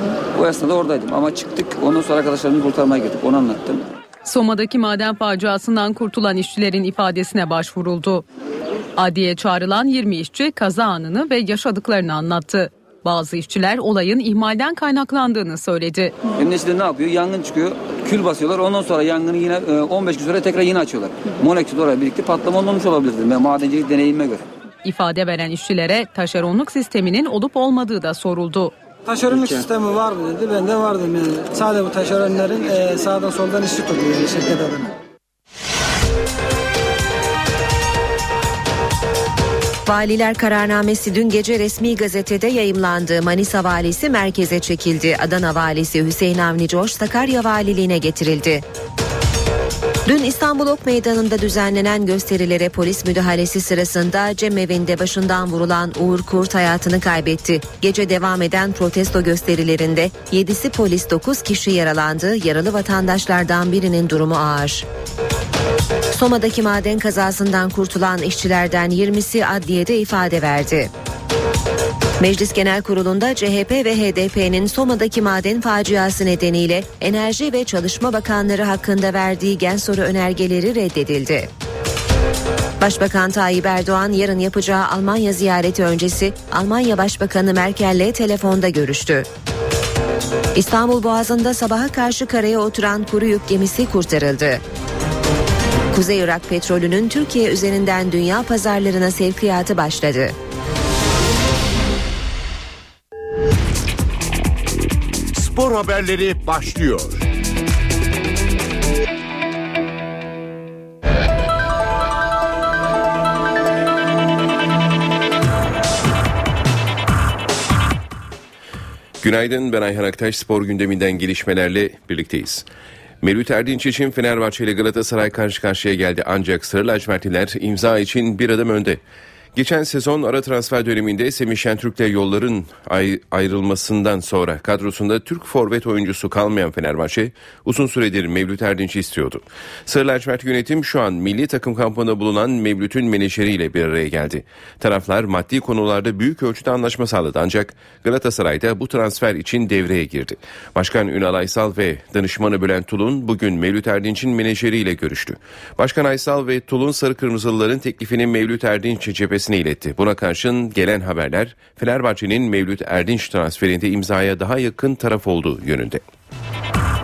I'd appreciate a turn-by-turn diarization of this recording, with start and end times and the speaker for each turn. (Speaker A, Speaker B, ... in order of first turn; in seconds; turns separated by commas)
Speaker A: 0.3-3.9, Speaker B: 4.2-8.3, Speaker B: 9.0-16.2, Speaker A: 16.3-24.4, Speaker B: 24.8-28.8, Speaker C: 29.1-34.9, Speaker D: 39.9-48.6, Speaker D: 50.1-64.9, Speaker D: 66.1-70.9, Speaker D: 72.2-81.5, Speaker D: 82.8-89.3, Speaker D: 90.5-94.6, Speaker D: 95.9-100.4, Speaker E: 105.3-107.3, Speaker F: 119.2-122.7, Speaker F: 123.2-129.0, Speaker F: 129.5-166.0